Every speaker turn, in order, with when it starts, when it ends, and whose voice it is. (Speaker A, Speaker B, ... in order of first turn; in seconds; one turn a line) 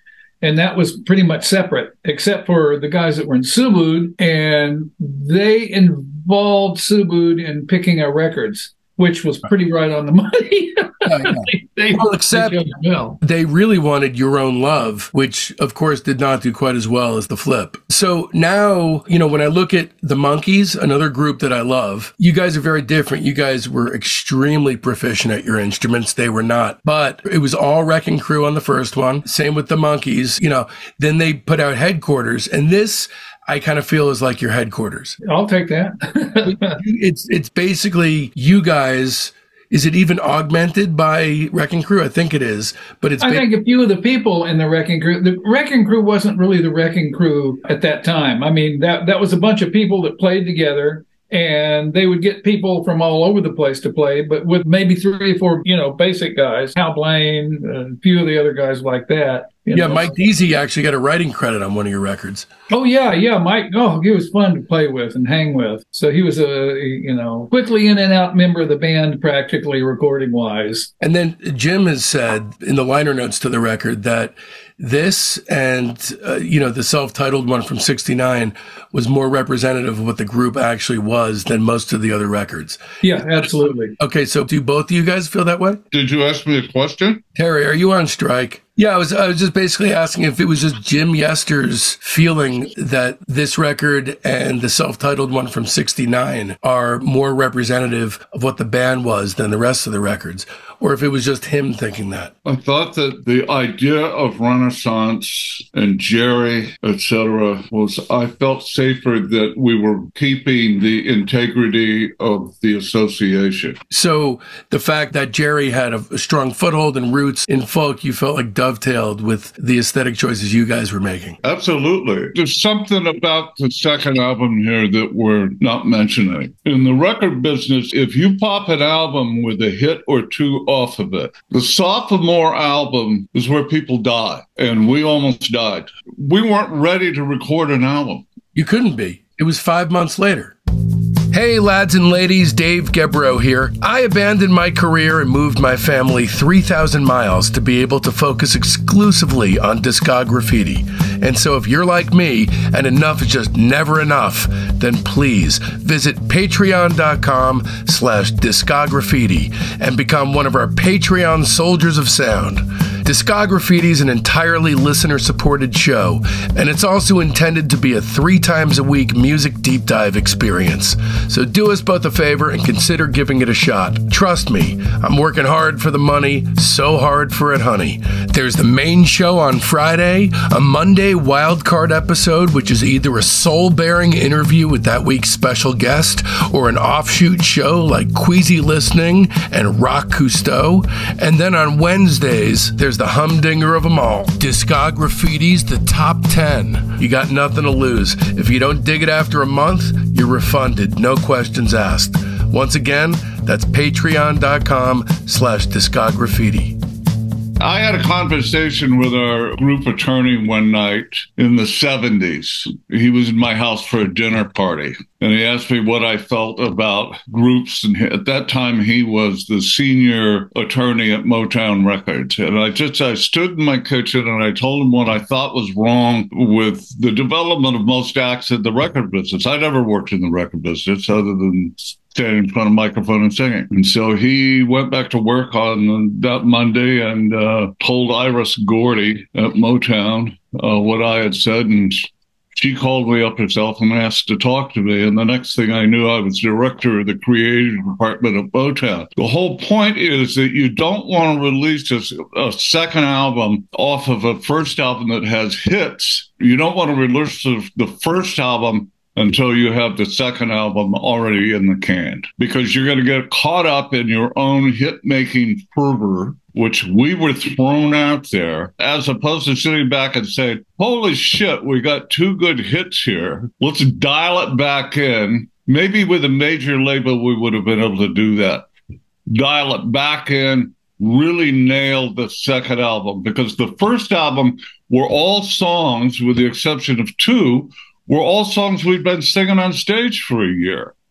Speaker A: 0.4-13.2
Speaker B: 11.1-12.6
Speaker B: 13.2-35.2
Speaker A: 35.2-36.8
Speaker B: 36.4-43.5
Speaker A: 43.2-60.1
Speaker B: 59.7-62.5
Speaker A: 62.7-70.9
Speaker B: 71.0-82.8
Speaker A: 83.0-83.9
Speaker B: 84.0-85.8
Speaker C: 85.9-87.2
Speaker B: 87.3-102.3
Speaker C: 102.4-113.8
Speaker B: 113.9-121.4
Speaker C: 121.4-138.2
Speaker B: 138.5-140.6
Speaker B: 141.3-206.8
Speaker C: 207.6-278.7
Speaker C: 279.3-290.9